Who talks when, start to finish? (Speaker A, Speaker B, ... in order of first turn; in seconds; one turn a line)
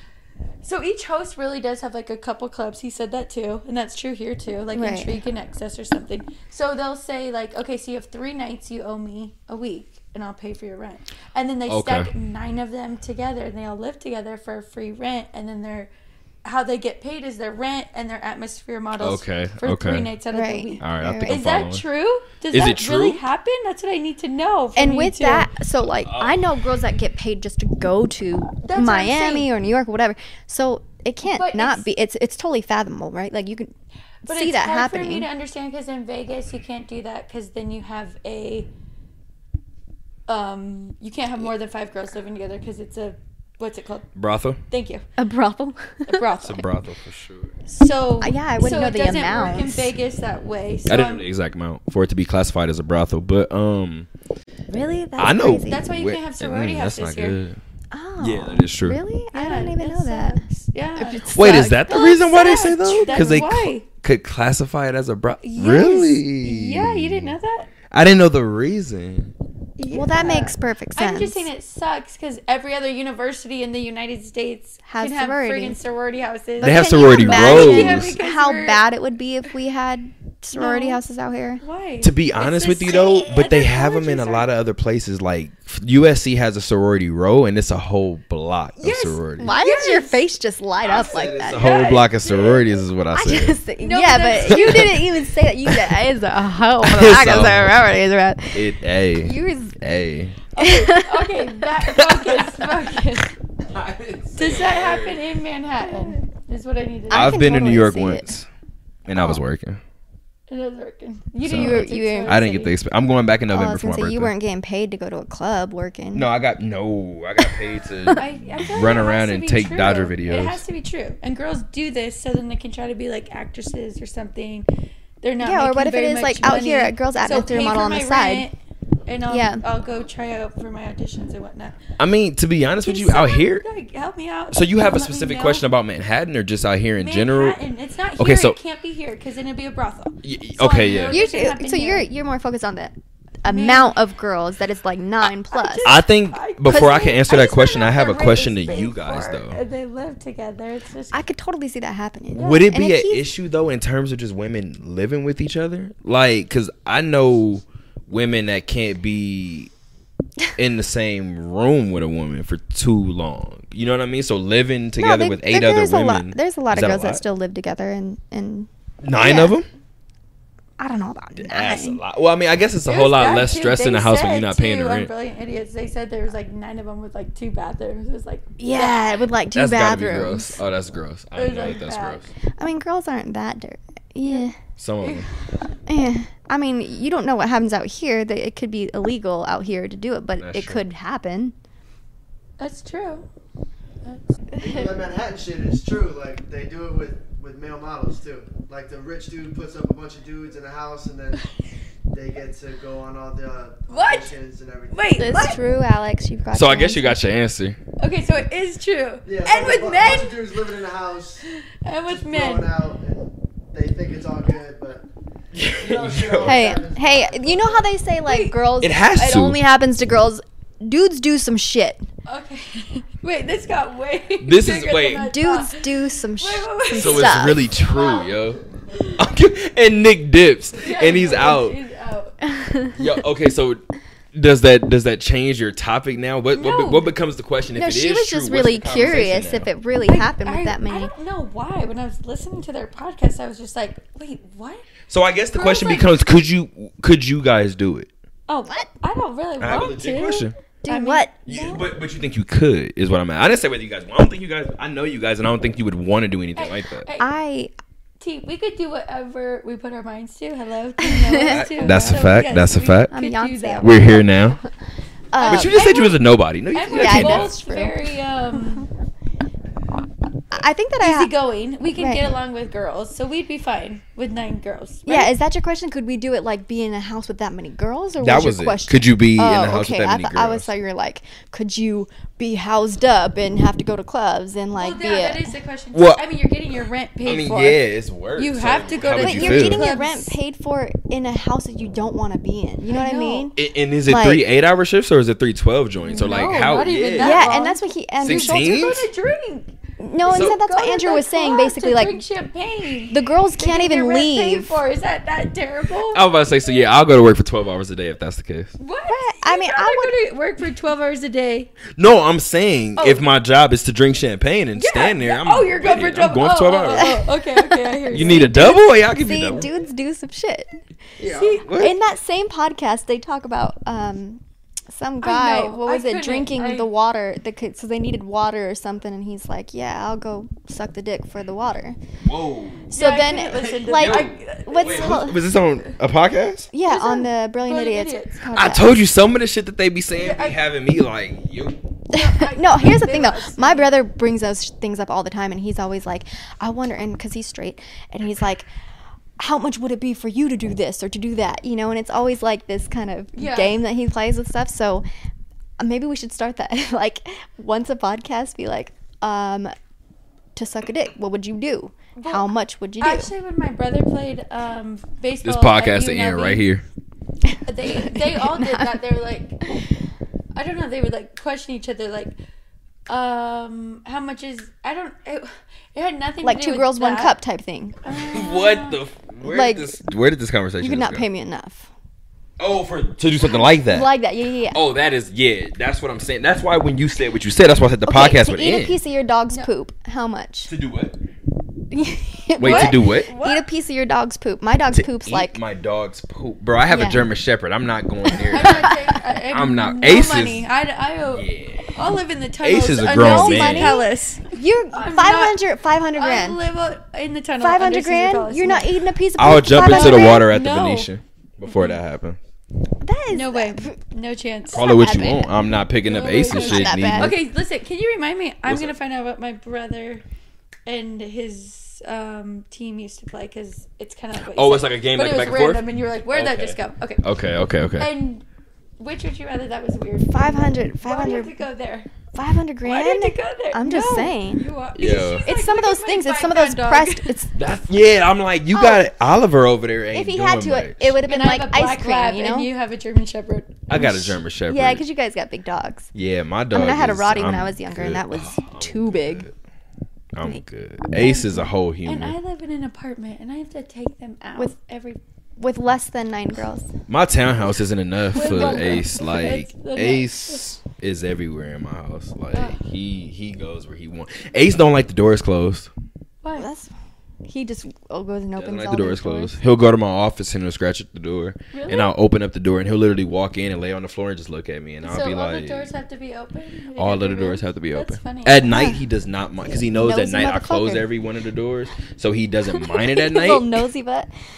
Speaker A: 0.6-15.9
Speaker B: 4.7-5.2
Speaker C: 11.7-12.1
Speaker A: 16.4-25.5
Speaker C: 19.0-20.1
Speaker B: 20.3-21.4
Speaker C: 20.8-21.8
Speaker C: 22.5-23.2
Speaker B: 24.8-33.7
Speaker C: 26.0-26.4
Speaker A: 28.6-29.5
Speaker A: 31.3-31.8
Speaker A: 34.2-38.7
Speaker B: 34.2-35.3
Speaker A: 40.3-44.1
Speaker C: 44.1-44.6
Speaker A: 44.7-45.0
Speaker B: 45.2-46.2
Speaker A: 46.1-46.6
Speaker C: 46.4-47.5
Speaker A: 47.7-51.2
Speaker B: 48.2-49.9
Speaker C: 50.9-54.1
Speaker B: 54.7-55.8
Speaker C: 55.2-57.6
Speaker A: 55.6-57.4
Speaker B: 57.9-60.4
Speaker C: 58.2-59.0
Speaker A: 59.3-63.9
Speaker B: 61.0-63.4
Speaker C: 61.3-67.4
Speaker A: 65.4-67.7
Speaker C: 67.9-69.3
Speaker A: 69.8-78.8
Speaker B: 69.9-71.5
Speaker B: 74.8-75.8
Speaker B: 76.6-81.6
Speaker C: 76.6-78.1
Speaker A: 80.5-81.0
Speaker A: 81.6-84.5
Speaker C: 82.0-89.5
Speaker A: 88.8-90.2
Speaker B: 89.4-91.9
Speaker C: 90.8-93.6
Speaker A: 91.5-92.6
Speaker B: 93.1-99.8
Speaker A: 93.8-95.0
Speaker C: 94.5-94.9
Speaker C: 96.8-97.8
Speaker C: 98.5-100.4
Speaker A: 100.5-103.3
Speaker B: 100.6-101.6
Speaker C: 101.9-102.6
Speaker C: 103.6-105.2
Speaker A: 104.3-107.5
Speaker B: 105.9-106.2
Speaker B: 107.1-108.3
Speaker C: 107.1-108.5
Speaker C: 109.0-109.8
Speaker B: 109.1-109.4
Speaker A: 110.5-112.7
Speaker C: 111.4-114.3
Speaker B: 111.5-112.4
Speaker B: 113.5-116.3
Speaker C: 116.1-120.6
Speaker A: 118.2-124.7
Speaker A: 125.2-128.5
Speaker B: 125.4-128.5
Speaker A: 129.1-131.8
Speaker B: 129.3-129.6
Speaker C: 132.0-133.6
Speaker A: 132.8-135.6
Speaker C: 134.5-137.6
Speaker A: 137.0-142.1
Speaker C: 138.2-138.6
Speaker C: 140.2-141.2
Speaker B: 141.1-145.9
Speaker A: 143.5-143.9
Speaker A: 145.5-151.2
Speaker C: 145.8-149.6
Speaker B: 146.7-147.4
Speaker B: 151.1-153.3
Speaker C: 152.3-159.7
Speaker C: 160.6-167.2
Speaker B: 165.0-169.6
Speaker C: 169.0-169.7
Speaker B: 170.8-172.0
Speaker C: 171.3-175.1
Speaker A: 172.8-179.1
Speaker B: 178.6-180.6
Speaker C: 179.5-182.3
Speaker A: 181.3-182.2
Speaker B: 182.6-184.5
Speaker C: 184.8-185.3
Speaker A: 185.0-185.3
Speaker B: 185.9-191.5
Speaker C: 190.4-190.8
Speaker A: 192.6-193.2
Speaker D: 194.6-201.4
Speaker D: 202.1-205.2
Speaker A: 203.9-204.3
Speaker A: 204.9-205.6
Speaker B: 205.2-207.2
Speaker C: 206.5-207.8
Speaker A: 208.0-210.4
Speaker D: 209.2-211.4
Speaker A: 211.8-212.7
Speaker D: 212.1-215.0
Speaker C: 215.5-216.6
Speaker D: 215.7-217.8
Speaker B: 216.4-222.1
Speaker A: 218.2-218.6
Speaker C: 218.8-219.6
Speaker A: 222.2-228.3
Speaker C: 224.4-225.3
Speaker B: 225.2-227.6
Speaker C: 226.9-228.6
Speaker C: 229.2-231.8
Speaker A: 230.8-232.3
Speaker B: 232.4-233.0
Speaker C: 232.9-233.8
Speaker C: 234.3-239.7
Speaker A: 236.5-237.1
Speaker B: 237.7-241.1
Speaker A: 240.1-244.9
Speaker C: 245.1-248.1
Speaker A: 245.5-246.1
Speaker A: 248.5-251.8
Speaker C: 249.6-250.5
Speaker B: 250.8-251.3
Speaker C: 251.4-257.1
Speaker A: 256.6-257.3
Speaker B: 257.2-257.7
Speaker A: 258.2-264.1
Speaker B: 261.1-262.3
Speaker C: 261.4-263.1
Speaker B: 263.1-264.6
Speaker C: 263.8-264.6
Speaker B: 265.3-265.8
Speaker A: 265.4-266.2
Speaker C: 265.4-267.5
Speaker A: 266.7-268.9
Speaker B: 266.9-268.0
Speaker B: 270.5-271.3
Speaker A: 271.0-275.3
Speaker B: 272.0-272.3
Speaker B: 275.1-285.5
Speaker C: 278.2-280.7
Speaker A: 284.8-290.4
Speaker C: 285.9-286.2
Speaker C: 287.2-289.9
Speaker B: 289.2-294.4
Speaker A: 292.9-293.5
Speaker C: 293.6-297.6
Speaker A: 296.1-306.3
Speaker B: 296.1-298.9
Speaker C: 298.2-299.1
Speaker B: 300.0-302.2
Speaker C: 300.3-300.6
Speaker B: 303.1-304.8
Speaker C: 306.1-308.7
Speaker A: 308.8-311.7
Speaker B: 309.1-310.1
Speaker C: 311.9-317.1
Speaker A: 313.0-313.2
Speaker A: 314.7-318.5
Speaker B: 316.9-320.7
Speaker C: 318.1-319.7
Speaker C: 321.2-321.9
Speaker A: 321.2-321.7
Speaker B: 321.8-332.0
Speaker A: 325.2-326.9
Speaker C: 332.2-332.9
Speaker B: 332.9-335.4
Speaker A: 332.9-335.4
Speaker C: 333.6-336.7
Speaker B: 336.7-338.9
Speaker A: 336.8-338.4
Speaker C: 338.5-341.8
Speaker A: 340.2-340.6
Speaker B: 342.1-348.7
Speaker A: 342.1-343.9
Speaker B: 349.4-355.0
Speaker A: 353.3-353.8
Speaker B: 355.8-359.7
Speaker B: 360.6-363.3
Speaker A: 362.1-366.6
Speaker C: 365.4-366.8
Speaker A: 367.6-369.6
Speaker B: 368.1-369.0
Speaker A: 370.5-372.3
Speaker A: 373.1-377.3
Speaker B: 376.4-378.0
Speaker A: 378.0-379.0
Speaker C: 378.2-381.2
Speaker B: 379.4-379.9
Speaker B: 380.8-381.9
Speaker C: 382.6-384.1
Speaker B: 383.6-384.8
Speaker C: 384.7-389.0
Speaker B: 388.1-390.7
Speaker C: 390.7-391.2
Speaker B: 391.9-395.6
Speaker C: 392.6-393.3
Speaker A: 392.6-393.6
Speaker C: 394.9-398.9
Speaker B: 396.9-397.3
Speaker A: 398.5-405.6
Speaker B: 398.5-399.1
Speaker C: 399.5-400.7
Speaker C: 401.2-401.9
Speaker C: 402.6-404.0
Speaker B: 403.1-406.6
Speaker A: 406.1-408.9
Speaker B: 407.6-410.5
Speaker C: 409.4-412.4
Speaker A: 409.6-411.1
Speaker A: 411.7-412.0
Speaker B: 413.0-413.9
Speaker A: 413.3-415.2
Speaker B: 414.7-415.5
Speaker C: 414.7-417.4
Speaker A: 416.0-420.2
Speaker B: 416.5-417.3
Speaker C: 418.6-418.9
Speaker A: 420.9-427.2
Speaker C: 424.5-428.1
Speaker A: 428.0-428.4
Speaker A: 429.0-432.1
Speaker B: 430.3-431.5
Speaker B: 432.3-434.6
Speaker A: 432.8-437.3
Speaker C: 434.9-435.4
Speaker B: 435.4-437.5
Speaker C: 437.5-441.1
Speaker B: 438.7-439.1
Speaker B: 440.1-442.7
Speaker A: 441.2-443.8
Speaker C: 443.9-445.0
Speaker B: 443.9-446.1
Speaker C: 446.1-449.5
Speaker B: 446.7-449.4
Speaker C: 450.3-452.3
Speaker A: 451.2-455.2
Speaker B: 455.6-456.9
Speaker C: 457.1-465.9
Speaker A: 458.3-460.7
Speaker B: 458.3-459.0
Speaker A: 462.5-462.8
Speaker A: 466.4-466.7
Speaker B: 466.5-466.9
Speaker B: 467.4-469.6
Speaker C: 468.6-475.9
Speaker A: 471.7-472.1
Speaker A: 475.0-478.7
Speaker C: 476.9-483.7
Speaker B: 478.7-479.0
Speaker B: 479.7-481.1
Speaker B: 482.8-484.3